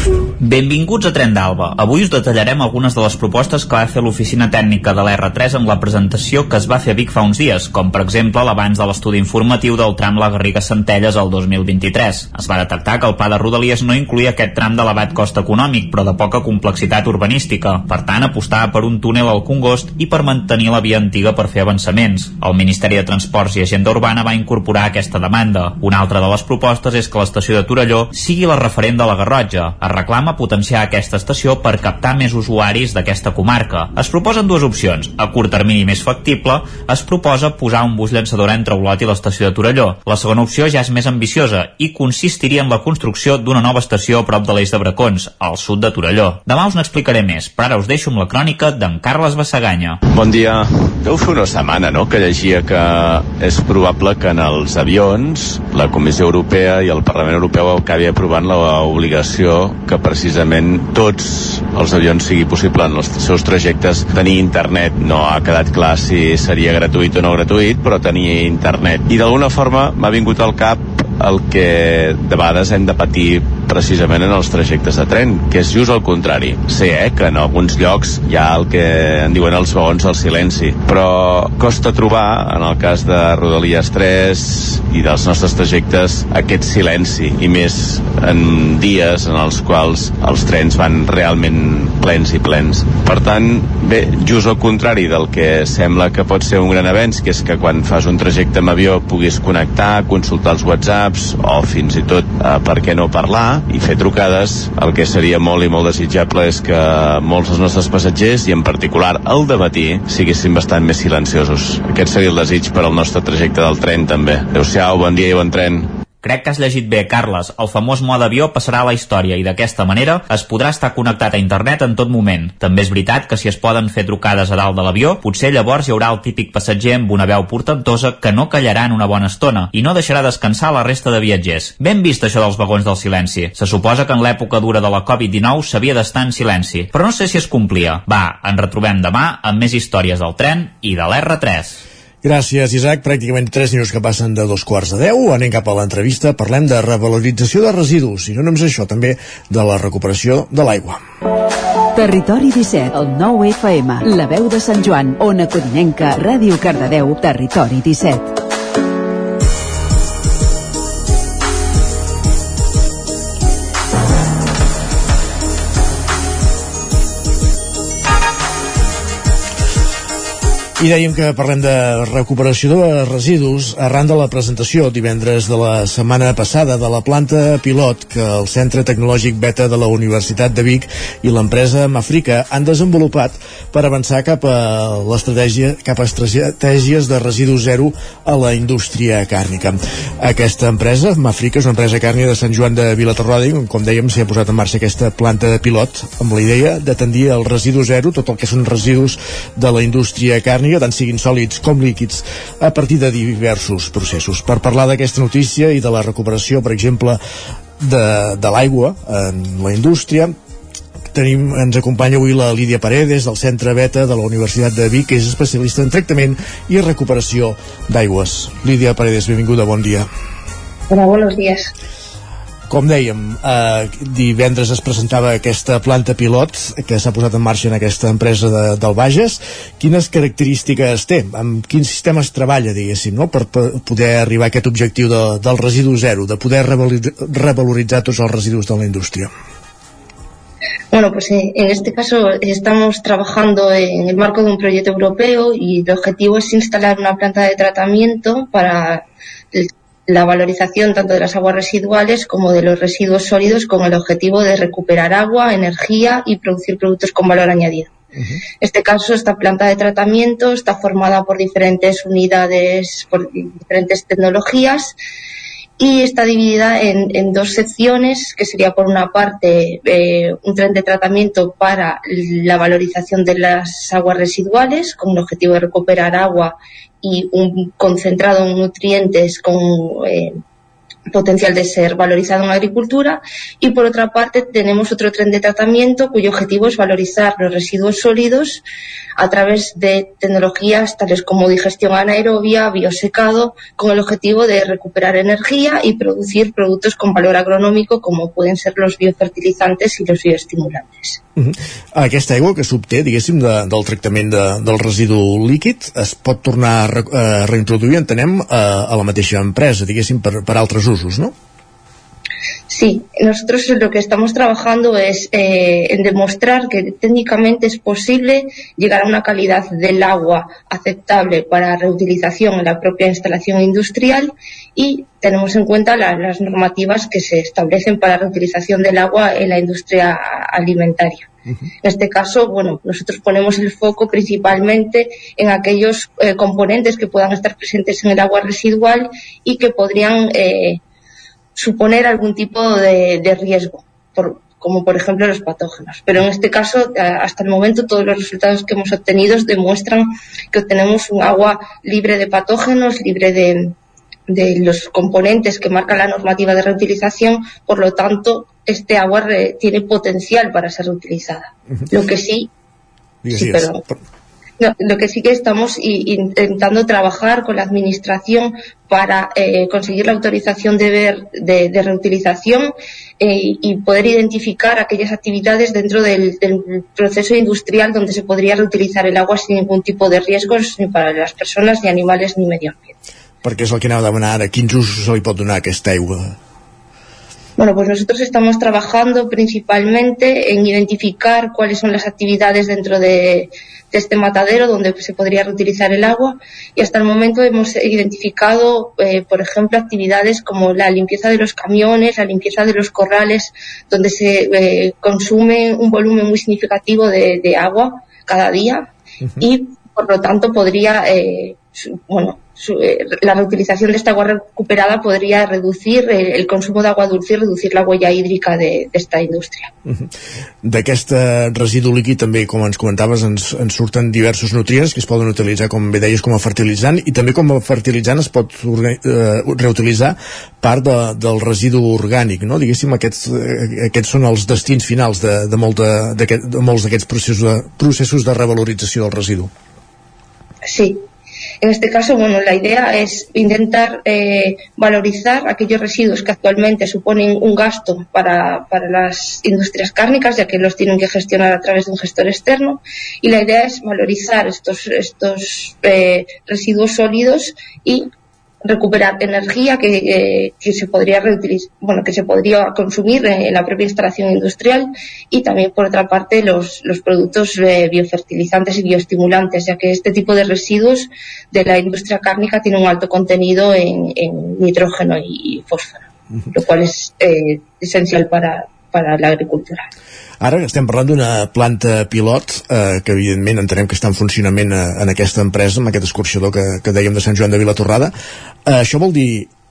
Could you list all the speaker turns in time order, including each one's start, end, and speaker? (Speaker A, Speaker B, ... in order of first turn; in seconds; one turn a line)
Speaker A: 0.4-50.0
Speaker B: 50.1-115.9
Speaker A: 116.2-141.8
Speaker C: 142.2-151.0
Speaker D: 151.9-158.3
Speaker C: 170.8-207.2
Speaker C: 207.8-210.3
Speaker C: 211.1-220.1
Speaker E: 220.9-221.7
Speaker C: 222.7-239.3
Speaker E: 240.9-257.9
Speaker E: 258.6-264.9
Speaker E: 265.8-280.4
Speaker E: 281.1-288.6
Speaker E: 289.2-301.2
Speaker C: 301.4-311.3
Speaker E: 312.7-331.3
Speaker E: 331.8-340.8
Speaker E: 341.6-353.8
Speaker E: 354.3-362.5
Speaker C: 363.2-363.9
Speaker E: 363.3-363.8
Speaker E: 364.6-382.9
Speaker C: 383.4-386.4
Speaker E: 387.6-408.9
Speaker E: 409.4-419.7
Speaker C: 420.6-439.5
Speaker E: 440.7-441.0
Speaker E: 441.6-458.1
Speaker E: 458.6-479.9
Speaker C: 480.4-488.1
Speaker C: 488.7-489.5